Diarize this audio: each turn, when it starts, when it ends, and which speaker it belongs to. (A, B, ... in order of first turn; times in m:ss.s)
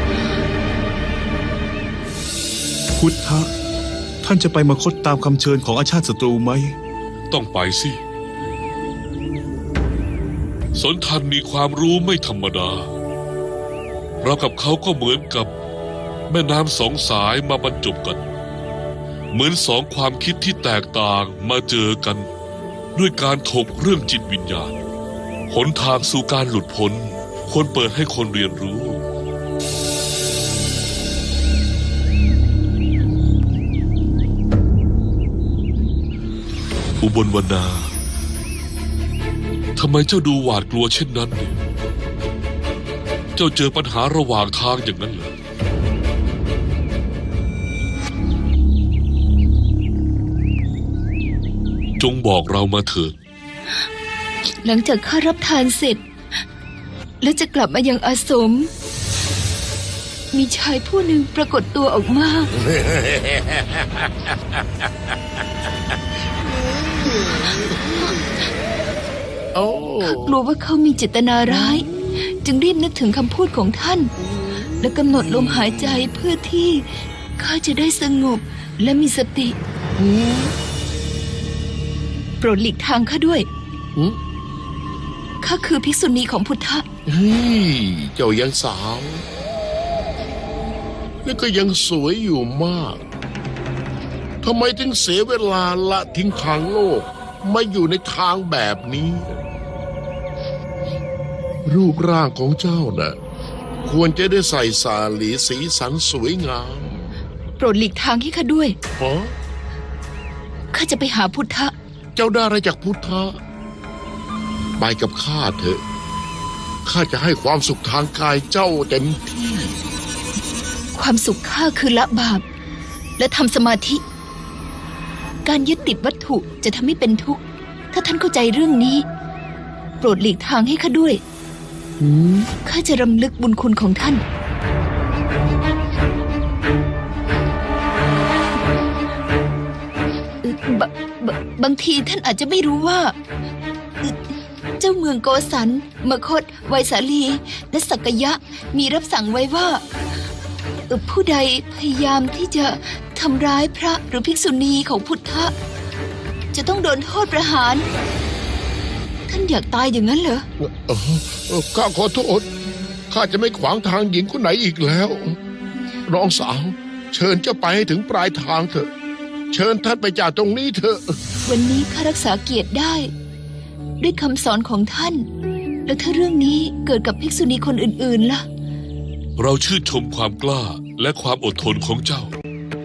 0:03.0-0:03.5 A
0:04.2-0:06.7 A
0:07.3-0:08.0 B
0:10.8-0:12.9 B
0:14.2-0:15.5 B
0:16.3-0:18.2 B
0:19.3-0:22.3 B
0:22.9-0:24.8 B
0:25.5-0:29.0 B
0:37.0-0:37.9 B
0:39.8-0:41.6 B
0:43.4-0:45.3 B
0:52.0-0:53.1 B
0:54.6-0:56.0 C
0:57.2-0:58.7 C
1:00.3-1:02.5 C
1:02.6-1:04.1 D
1:06.6-1:08.1 D
1:09.5-1:10.4 D
1:10.0-1:14.1 C
1:11.5-1:11.8 D
1:14.7-1:19.6 C
1:20.0-1:20.5 D
1:22.4-1:23.5 C
1:25.4-1:26.9 C
1:27.1-1:29.2 D
1:31.2-1:33.0 D
1:34.4-1:39.4 D
1:41.7-1:43.2 D
1:43.8-1:47.1 D
1:47.6-1:48.8 C
1:49.0-1:49.3 D
1:50.7-1:51.7 C
1:52.2-1:53.4 D
1:54.8-1:55.8 D
1:56.8-1:59.7 D
2:01.0-2:02.4 C
2:03.2-2:04.0 C
2:05.4-2:09.1 C
2:10.0-2:11.2 C
2:12.0-2:12.5 D
2:12.5-2:14.2 C
2:20.4-2:23.1 C
2:24.0-2:29.8 C
2:30.9-2:35.5 C
2:36.5-2:37.9 C
2:39.3-2:40.4 C
2:40.8-2:42.5 D
2:43.1-2:45.4 D
2:46.1-2:48.9 D
2:49.5-2:51.2 D
2:51.5-2:53.1 C
2:54.0-2:55.3 C
2:55.9-2:58.4 C
2:59.4-3:02.3 B